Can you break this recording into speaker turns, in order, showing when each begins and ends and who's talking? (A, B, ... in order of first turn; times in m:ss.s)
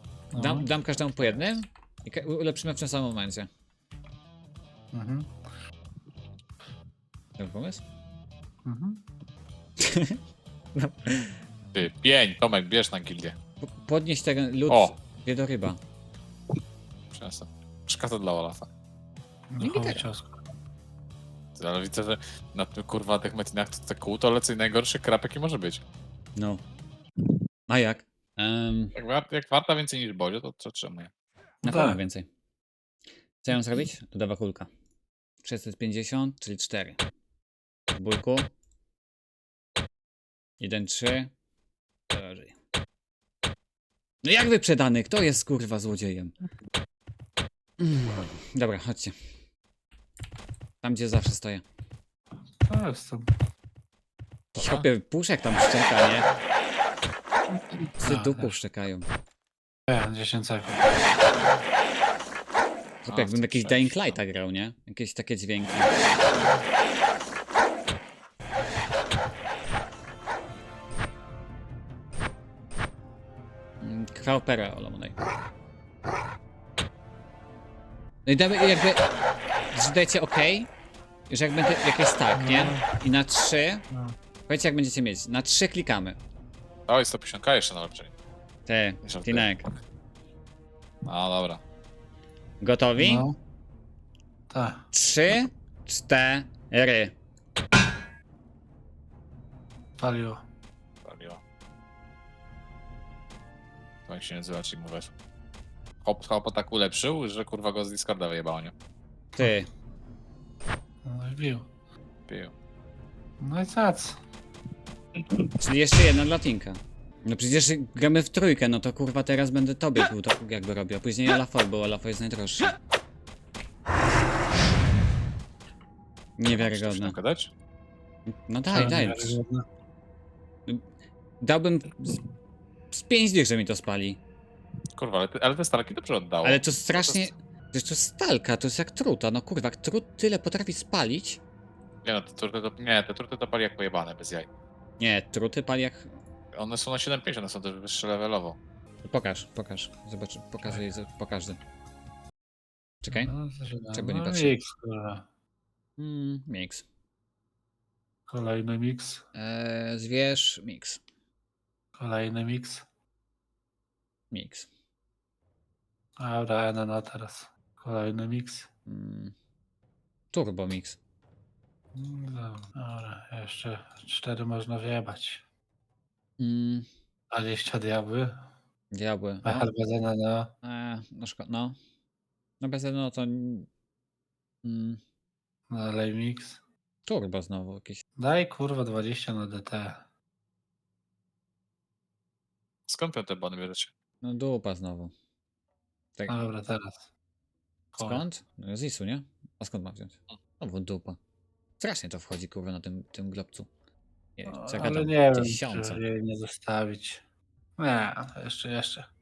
0:00.3-0:00.7 A
0:00.3-0:03.5 B
0:04.9-0:05.3 A
0:07.4-0:07.8 B
0:08.6-0:09.0 A
0:09.8-0:10.2 B
0:10.7-0:11.4 B
0:11.7-0:13.3 C
0:13.6-0:15.8 B
0:14.7-0:14.9 C
0:17.1-0:18.7 C
0:19.5-0:20.4 A
0:19.6-0:20.1 B
0:21.6-0:25.8 C
0:26.4-0:26.6 B
0:27.7-0:29.0 B
0:28.9-0:31.1 C
0:31.6-0:32.0 A
0:31.6-0:32.3 B
0:33.4-0:34.7 B
0:35.4-0:37.0 B
0:37.9-0:38.5 B
0:40.6-0:41.3 B
0:42.1-0:42.5 B
0:44.2-0:46.3 B
0:47.8-0:49.1 B
0:50.8-0:51.6 B
0:52.6-0:53.3 A
0:54.5-0:56.3 B
0:54.6-0:54.9 C
0:58.0-0:59.0 B
0:58.0-0:58.6 A
0:59.9-1:01.0 A
1:03.0-1:05.9 B
1:03.1-1:04.2 C
1:13.8-1:15.2 B
1:18.2-1:19.0 B
1:19.7-1:20.7 B
1:21.3-1:23.8 B
1:22.3-1:22.9 A
1:24.5-1:26.2 B
1:26.9-1:28.1 C
1:28.7-1:29.7 B
1:29.0-1:29.6 C
1:31.0-1:31.6 C
1:32.6-1:33.2 B
1:33.0-1:33.3 A
1:34.5-1:34.8 A
1:34.9-1:37.1 B
1:40.0-1:40.4 A
1:41.0-1:41.4 C
1:44.1-1:45.1 C
1:46.0-1:48.7 C
1:49.4-1:49.7 B
1:51.0-1:51.7 A
1:52.3-1:52.5 C
1:53.4-1:54.2 A
1:55.6-2:02.7 B
2:06.4-2:07.2 B
2:06.5-2:07.5 C
2:08.4-2:09.4 B
2:08.7-2:09.6 A
2:11.4-2:12.2 B
2:12.9-2:14.2 B
2:15.0-2:17.3 C
2:16.4-2:21.4 B
2:22.0-2:24.5 C
2:25.0-2:26.1 B
2:26.5-2:28.6 C
2:29.0-2:31.6 B
2:33.0-2:33.3 B
2:33.1-2:35.2 A
2:33.9-2:34.5 B
2:36.0-2:36.8 B
2:38.3-2:39.2 A
2:39.3-2:41.0 B
2:41.9-2:42.8 A
2:44.3-2:44.7 B
2:46.2-2:48.7 A
2:48.9-2:49.3 B
2:50.3-2:51.0 B
2:51.9-2:55.4 A
2:56.4-2:56.9 B
2:57.3-2:58.4 A
2:58.9-2:59.7 B
2:59.4-3:00.5 A
3:00.6-3:01.8 B
3:02.6-3:03.7 B
3:04.6-3:05.0 B
3:05.7-3:06.6 A
3:07.0-3:08.0 B
3:08.2-3:10.0 A
3:12.9-3:13.9 C
3:14.2-3:15.1 B
3:16.2-3:16.4 B
3:16.3-3:17.1 A
3:17.9-3:21.2 B
3:18.0-3:18.2 A
3:21.8-3:23.7 B
3:24.4-3:26.0 B
3:24.5-3:27.2 A
3:27.8-3:29.0 A